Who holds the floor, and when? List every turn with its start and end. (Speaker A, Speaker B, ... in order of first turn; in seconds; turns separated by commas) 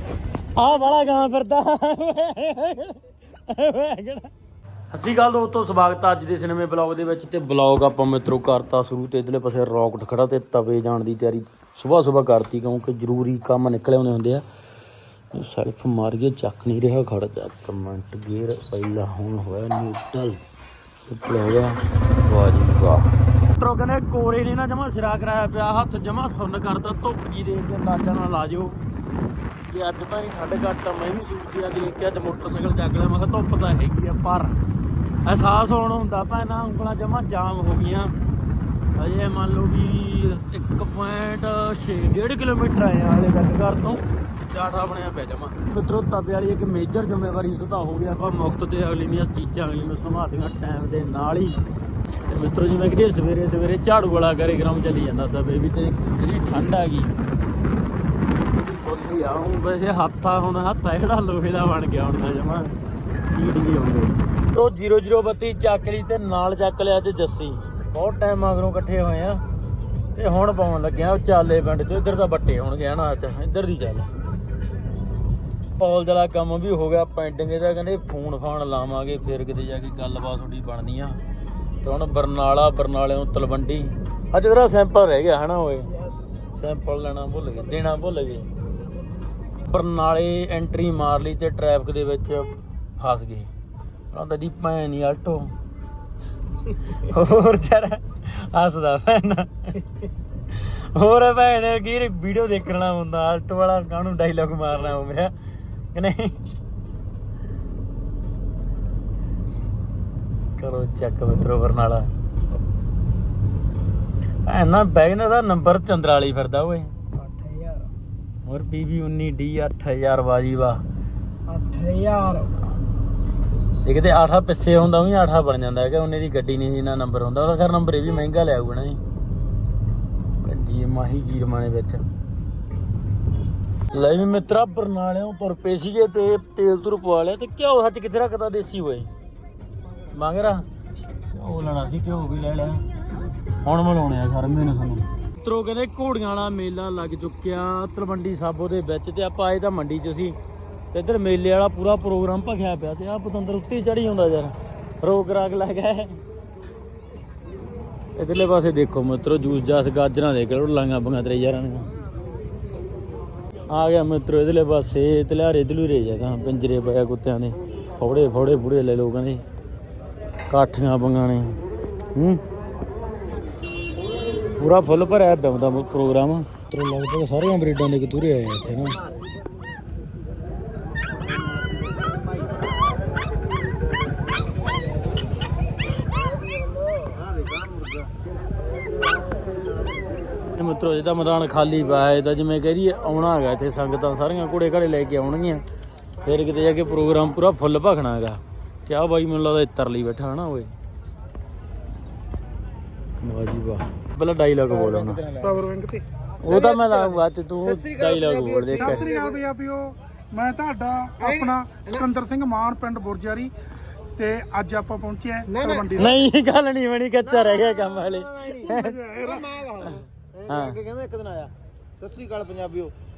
Speaker A: 0.6-4.3, Speaker A: 4.9-14.4, Speaker A: 15.3-20.4, Speaker A: 21.1-28.8, Speaker A: 29.7-34.6, Speaker A: 35.2-38.1, Speaker A: 39.0-51.6, Speaker A: 52.3-57.1, Speaker A: 58.5-62.7, Speaker A: 63.3-69.4, Speaker A: 70.1-74.1, Speaker A: 75.8-81.2, Speaker A: 81.8-85.9, Speaker B: 85.9-86.4, Speaker A: 86.5-88.5, Speaker A: 89.6-93.5, Speaker A: 94.1-95.5, Speaker A: 96.9-99.9, Speaker A: 100.5-105.3, Speaker A: 105.9-106.4, Speaker A: 110.6-112.1, Speaker A: 114.5-116.9, Speaker B: 117.1-117.9, Speaker A: 118.5-120.8, Speaker B: 121.5-122.6, Speaker A: 123.8-129.0, Speaker A: 130.4-132.0, Speaker A: 133.9-139.1, Speaker A: 140.1-140.6, Speaker A: 141.3-142.8, Speaker A: 143.6-150.3, Speaker A: 150.9-156.2, Speaker A: 158.2-161.9, Speaker A: 163.7-169.4, Speaker A: 170.5-171.6, Speaker A: 172.1-172.4, Speaker A: 174.6-179.0, Speaker A: 190.5-195.6, Speaker A: 196.2-200.7, Speaker A: 203.2-205.2, Speaker B: 204.7-205.6, Speaker C: 205.4-206.0, Speaker A: 206.4-209.1, Speaker B: 206.4-209.4, Speaker C: 208.7-213.5, Speaker B: 211.2-212.1, Speaker C: 214.2-216.2, Speaker B: 215.5-216.2, Speaker A: 215.9-219.0, Speaker B: 217.2-222.9, Speaker C: 218.7-219.5, Speaker A: 219.9-220.8